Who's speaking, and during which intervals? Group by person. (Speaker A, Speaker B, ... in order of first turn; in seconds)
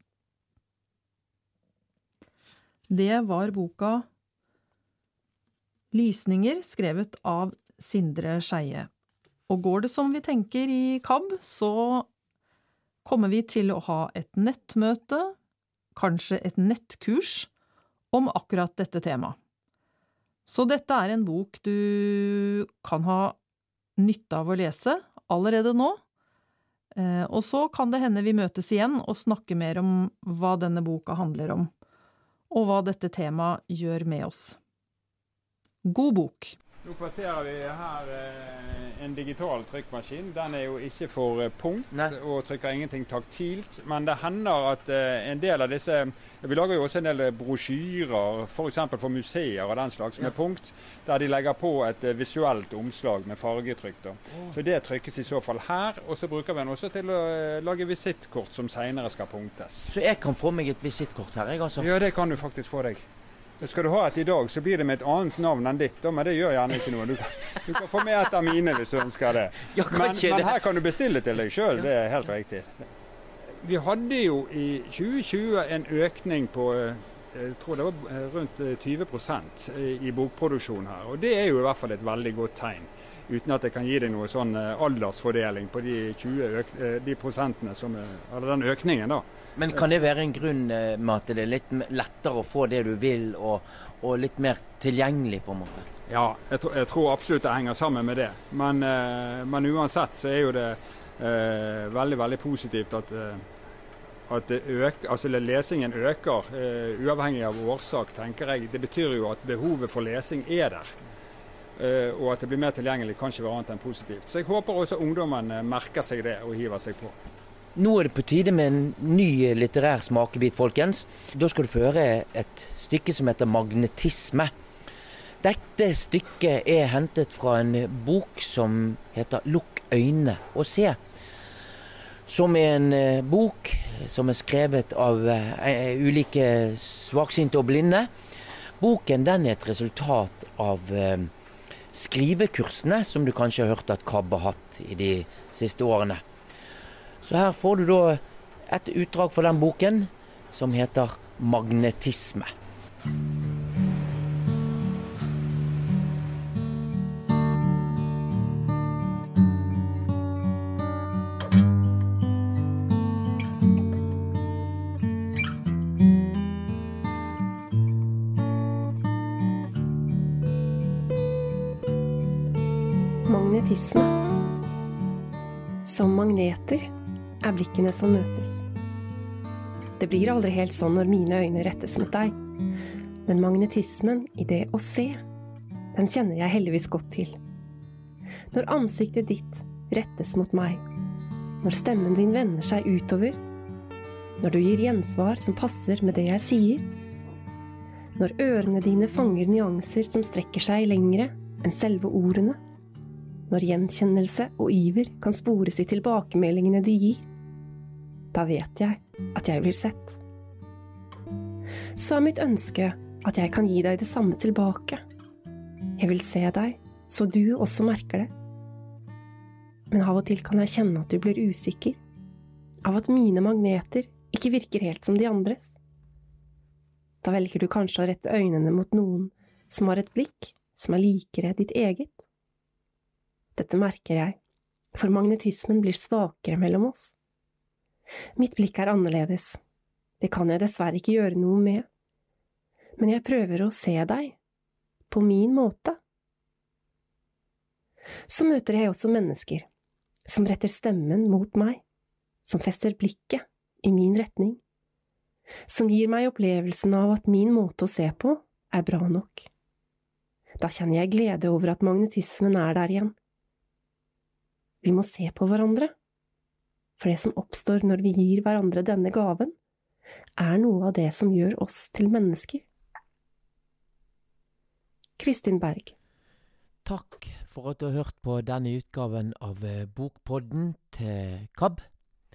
Speaker A: 2.9-4.0, 5.9-8.9, 9.5-12.1, 13.0-15.3, 15.9-17.5, 18.1-19.4, 20.4-23.4, 24.0-26.0, 26.9-31.7, 32.5-34.6, 35.8-36.6
Speaker B: 36.8-59.9, 61.8-63.0, 63.6-72.7, 73.6-89.2, 96.1-103.4, 104.3-110.9, 111.8-117.2
Speaker C: 59.9-61.9, 69.7-70.6, 89.5-95.9, 117.7-124.5, 125.4-131.0, 132.3-138.1, 138.8-141.3, 141.9-146.2, 147.2-152.5, 276.8-281.9
Speaker D: 173.3-174.1, 175.8-176.9, 177.4-178.6, 180.0-182.3, 183.2-185.2, 185.9-187.4, 188.5-190.8, 191.6-193.4, 194.4-196.9, 198.2-202.6, 203.5-207.2, 208.3-210.2, 212.0-215.0, 216.0-218.3, 219.9-222.0, 222.8-225.8, 227.2-232.2, 233.6-234.4, 234.9-237.1, 238.4-239.6, 240.2-241.9, 243.0-244.4, 245.1-246.0, 248.3-249.7, 250.3-251.8, 252.4-254.6, 255.7-259.5, 260.6-263.1, 264.8-265.9, 267.0-269.5, 270.4-272.6, 275.2-275.9